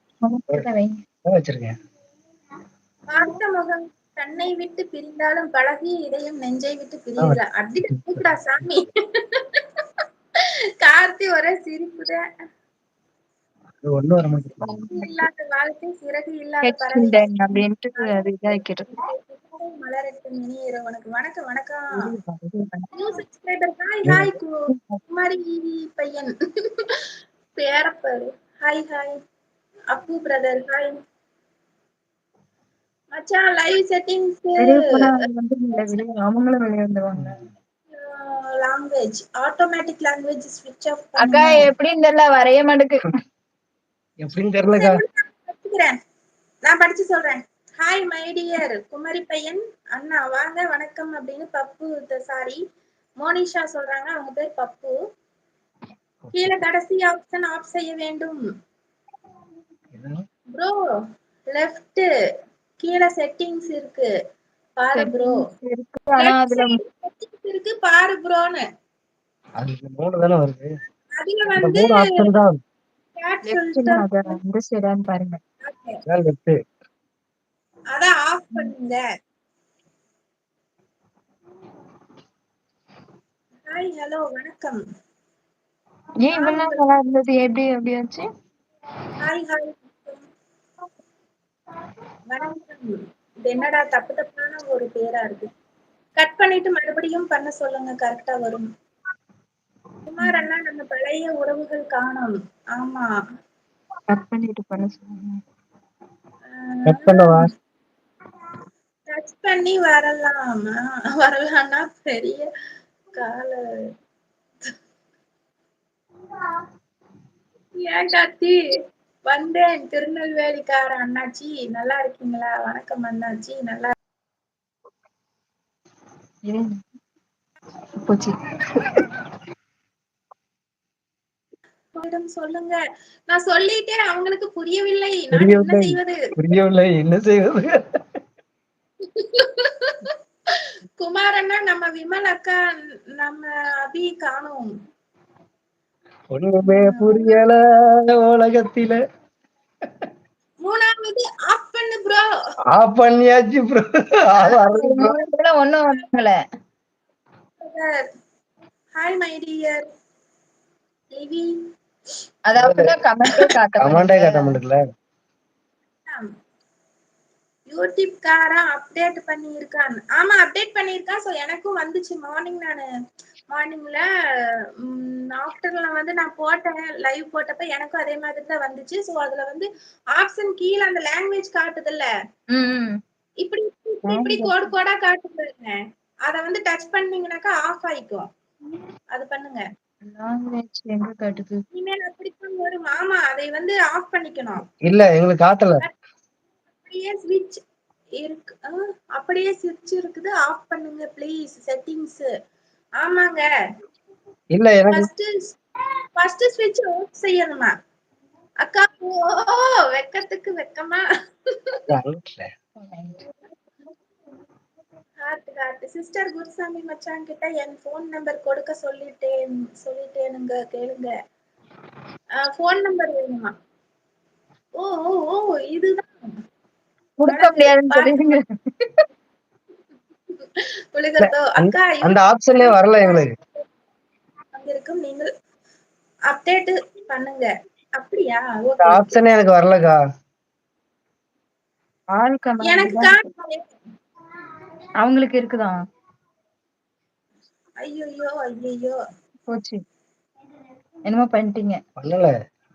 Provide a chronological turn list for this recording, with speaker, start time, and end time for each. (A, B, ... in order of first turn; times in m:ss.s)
0:00.2-0:01.0 A
0:01.2-0:01.7 B
0:03.1-0:12.2 C
0:07.2-0:08.9 B
0:13.8-0:14.9 B
0:14.6-0:15.2 A
0:14.9-0:17.4 C
0:16.6-0:18.9 A
0:18.0-0:21.9 C
0:22.0-0:22.9 A
0:22.9-0:24.6 C
0:24.0-0:24.3 B
0:24.7-0:25.0 A
0:25.1-0:27.1 C
0:27.6-0:29.2 C
0:29.9-0:31.0 C
0:33.1-0:35.1 C
0:34.6-0:37.4 A
0:37.1-0:37.5 B
0:37.9-0:41.7 C
0:41.2-0:43.1 A
0:44.2-0:45.0 B
0:44.7-0:46.0 C
0:46.6-0:52.6 C
0:53.2-0:54.9 C
0:56.2-0:56.5 B
0:56.3-0:58.4 C
0:59.9-1:00.2 B
1:01.5-1:02.1 C
1:02.8-1:04.1 C
1:04.8-1:05.4 C
1:04.9-1:06.8 A
1:06.2-1:08.6 C
1:09.6-1:10.7 B
1:11.2-1:12.0 C
1:11.5-1:12.6 B
1:13.2-1:14.3 C
1:13.5-1:15.4 A
1:15.6-1:15.9 C
1:16.1-1:16.6 B
1:17.9-1:19.0 C
1:23.7-1:24.8 C
1:26.2-1:28.2 A
1:26.3-1:26.9 C
1:29.2-1:30.2 C
1:32.3-1:35.5 C
1:36.2-1:38.7 C
1:40.1-1:43.1 C
1:40.2-1:40.5 A
1:44.1-1:45.4 A
1:46.5-1:47.4 C
1:46.8-1:47.5 B
1:49.1-1:52.5 C
1:53.1-1:53.6 C
1:57.8-1:58.6 C
1:59.3-2:03.9 C
2:06.4-2:06.8 A
2:08.0-2:09.0 A
2:11.9-2:16.2 C
2:15.3-2:17.8 B
2:19.0-2:22.6 C
2:23.2-2:24.7 C
2:26.3-2:29.0 B
2:26.6-2:27.4 C
2:30.6-2:32.2 C
2:32.7-2:35.2 B
2:34.7-2:36.4 A
2:37.6-2:38.0 C
2:39.0-2:39.8 C
2:41.1-2:41.6 C
2:42.5-2:44.6 A
2:42.5-2:43.0 B
2:43.8-2:44.8 B
2:47.7-2:52.9 C
2:53.5-2:54.0 C
2:54.8-3:02.1 C
3:02.5-3:03.0 A
3:03.4-3:08.3 C
3:04.1-3:04.7 A
3:09.1-3:09.6 C
3:10.0-3:11.6 A
3:11.7-3:14.6 C
3:14.8-3:15.8 B
3:16.8-3:17.6 C
3:18.2-3:22.3 C
3:23.0-3:23.4 C
3:24.5-3:25.1 B
3:24.9-3:25.6 C
3:26.2-3:27.7 C
3:28.6-3:31.8 C
3:31.9-3:32.5 B
3:32.8-3:33.2 A
3:35.2-3:41.1 C
3:42.4-3:43.5 C
3:44.8-3:46.3 C
3:47.2-3:49.0 A
3:47.3-3:48.3 C
3:50.4-3:53.6 C
3:51.2-3:53.3 B
3:54.5-3:55.3 C
3:56.3-3:59.2 C
3:58.8-4:00.0 B
4:02.1-4:03.2 A
4:02.6-4:03.6 C
4:05.0-4:05.8 A
4:07.8-4:09.0 C
4:09.5-4:09.8 A
4:11.0-4:11.8 A
4:12.0-4:12.3 B